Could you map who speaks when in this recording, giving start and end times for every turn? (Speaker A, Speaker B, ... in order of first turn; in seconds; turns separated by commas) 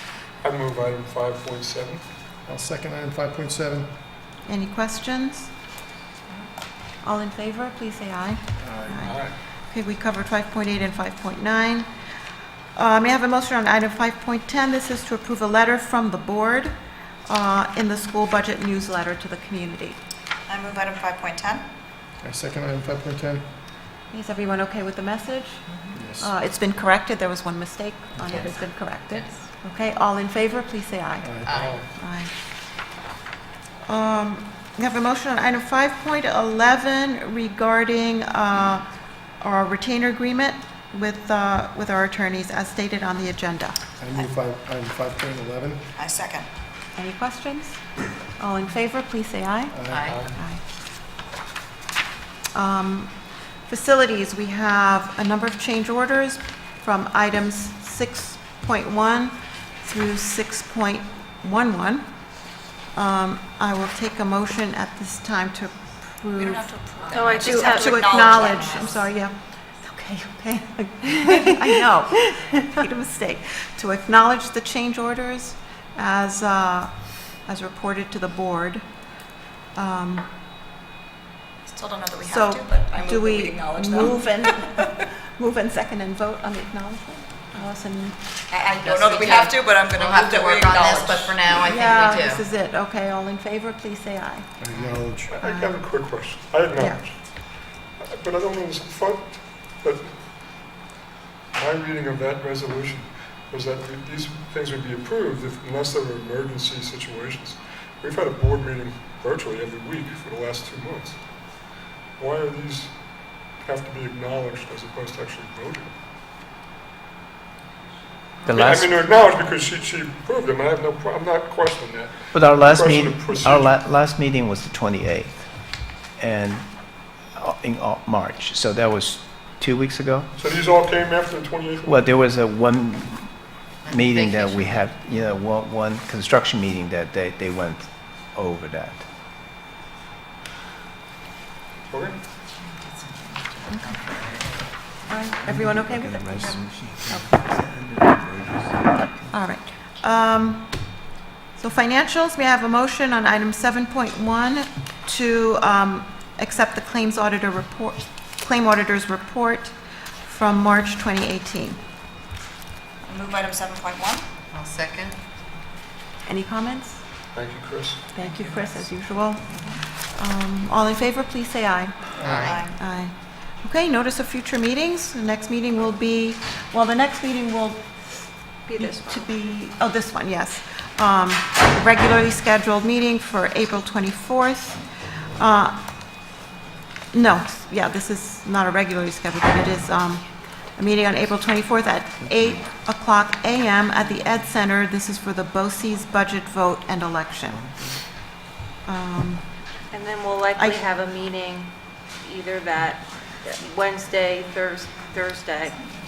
Speaker A: 0.4-2.0, Speaker B: 2.5-3.9, Speaker C: 4.5-5.5, Speaker C: 7.0-9.1, Speaker B: 8.6-9.1, Speaker A: 9.0-9.3, Speaker C: 9.7-11.9, Speaker C: 12.7-16.7, Speaker C: 17.3-20.0, Speaker D: 20.5-21.6, Speaker B: 22.2-23.4, Speaker C: 24.1-25.6, Speaker B: 25.9-26.3, Speaker C: 26.2-31.3, Speaker B: 31.2-31.7, Speaker C: 31.9-32.3, Speaker C: 33.9-38.9, Speaker C: 39.4-43.8, Speaker B: 44.0-45.9, Speaker D: 46.0-46.5, Speaker C: 47.0-47.8, Speaker C: 48.4-49.8, Speaker B: 49.7-50.2, Speaker A: 50.1-50.3, Speaker C: 50.3-50.6, Speaker C: 52.5-53.1, Speaker C: 53.7-62.0, Speaker C: 62.9-78.8, Speaker D: 66.4-68.9, Speaker E: 67.1-68.0, Speaker C: 79.7-80.3, Speaker D: 81.7-84.1, Speaker C: 82.2-88.2, Speaker D: 88.5-92.3, Speaker F: 89.0-92.4, Speaker C: 91.5-94.5, Speaker B: 94.6-95.3, Speaker A: 95.3-97.2, Speaker C: 95.4-95.8, Speaker A: 98.0-100.1, Speaker A: 101.5-111.2, Speaker A: 112.2-112.9, Speaker A: 113.5-115.9, Speaker G: 118.5-119.0, Speaker A: 118.5-123.8, Speaker G: 122.3-130.3, Speaker A: 130.3-132.0, Speaker G: 131.8-139.1, Speaker F: 133.9-134.7, Speaker A: 141.9-142.2, Speaker C: 143.7-144.0, Speaker C: 145.1-147.3, Speaker G: 145.5-148.5, Speaker C: 149.3-150.8, Speaker C: 151.6-161.8, Speaker D: 163.0-164.2, Speaker F: 164.5-165.1, Speaker C: 166.2-167.0, Speaker A: 167.3-168.0, Speaker C: 168.1-177.9, Speaker B: 172.2-172.6, Speaker D: 172.2-172.7, Speaker E: 178.7-179.3, Speaker C: 178.8-184.8, Speaker C: 185.3-185.9, Speaker C: 187.1-197.7, Speaker C: 198.8-199.5, Speaker E: 199.9-205.9